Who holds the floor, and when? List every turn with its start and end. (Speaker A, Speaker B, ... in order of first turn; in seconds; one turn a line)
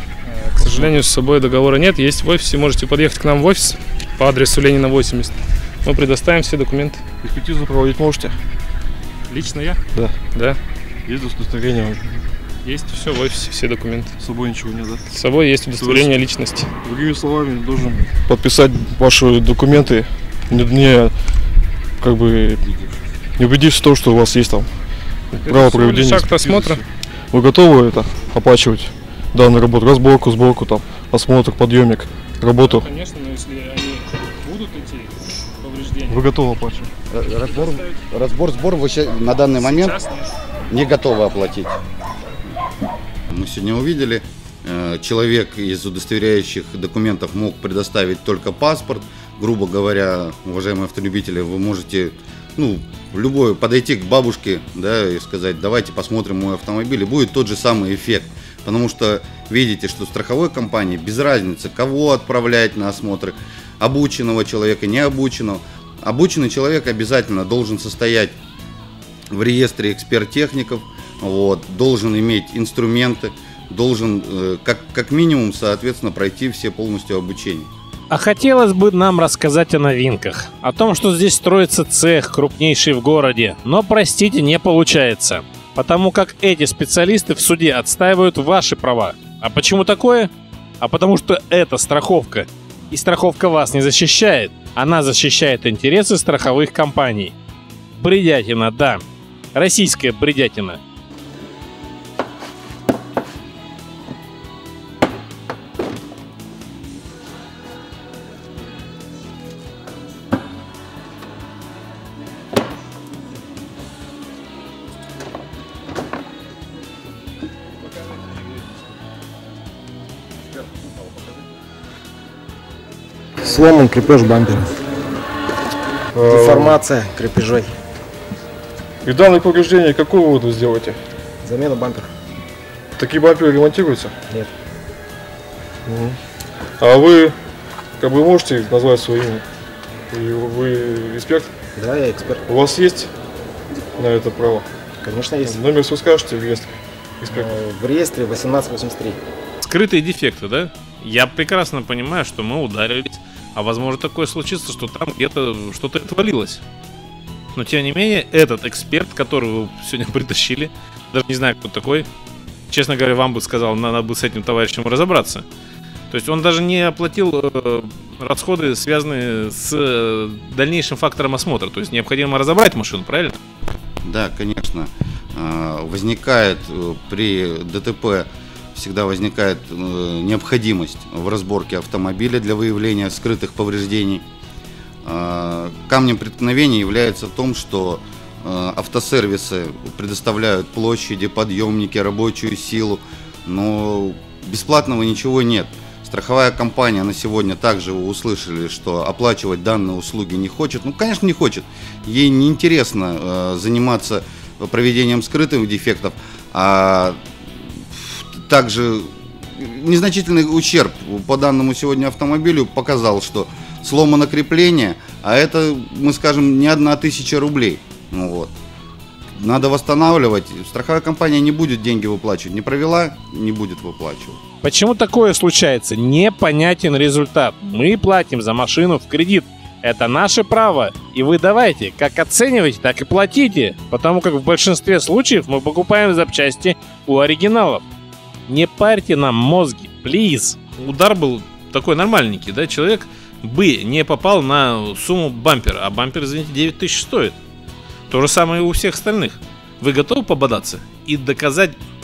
Speaker A: 0.3-7.0
Speaker B: 0.6-0.9
Speaker B: 7.2-8.3
Speaker A: 9.3-9.8
Speaker B: 9.9-10.2
Speaker A: 10.3-10.6
Speaker B: 11.1-12.2
Speaker A: 12.7-14.1
Speaker B: 14.2-15.1
Speaker A: 15.1-16.7
Speaker B: 15.7-16.2
Speaker B: 16.8-21.1
Speaker B: 22.0-22.7
Speaker B: 23.4-24.7
Speaker A: 25.4-26.8
Speaker B: 25.4-32.9
Speaker A: 32.6-36.2
Speaker B: 36.1-36.9
Speaker C: 37.1-40.0
Speaker A: 39.6-40.3
Speaker C: 40.7-41.8
Speaker C: 43.3-68.4
Speaker C: 69.3-77.7
Speaker D: 78.1-97.3
Speaker D: 97.9-99.0
Speaker D: 99.5-100.8
Speaker E: 123.4-124.7
Speaker B: 126.1-126.8
Speaker E: 126.2-127.8
Speaker B: 129.0-131.0
Speaker E: 131.4-132.1
Speaker B: 133.0-134.1
Speaker B: 135.9-136.2
Speaker B: 136.8-137.4
Speaker B: 138.0-139.4
Speaker B: 140.1-141.5
Speaker E: 141.8-142.5
Speaker B: 142.5-143.1
Speaker B: 144.0-144.7
Speaker E: 145.0-145.7
Speaker B: 145.5-147.5
Speaker E: 147.3-149.2
Speaker D: 149.6-156.6
Speaker D: 157.6-162.1
Speaker D: 162.7-165.4
Speaker D: 166.1-173.4
Speaker C: 174.1-184.2
Speaker C: 185.0-207.2
Speaker C: 207.9-218.5
Speaker C: 219.4-224.4
Speaker D: 224.6-237.8
Speaker D: 238.5-247.4
Speaker D: 248.1-251.8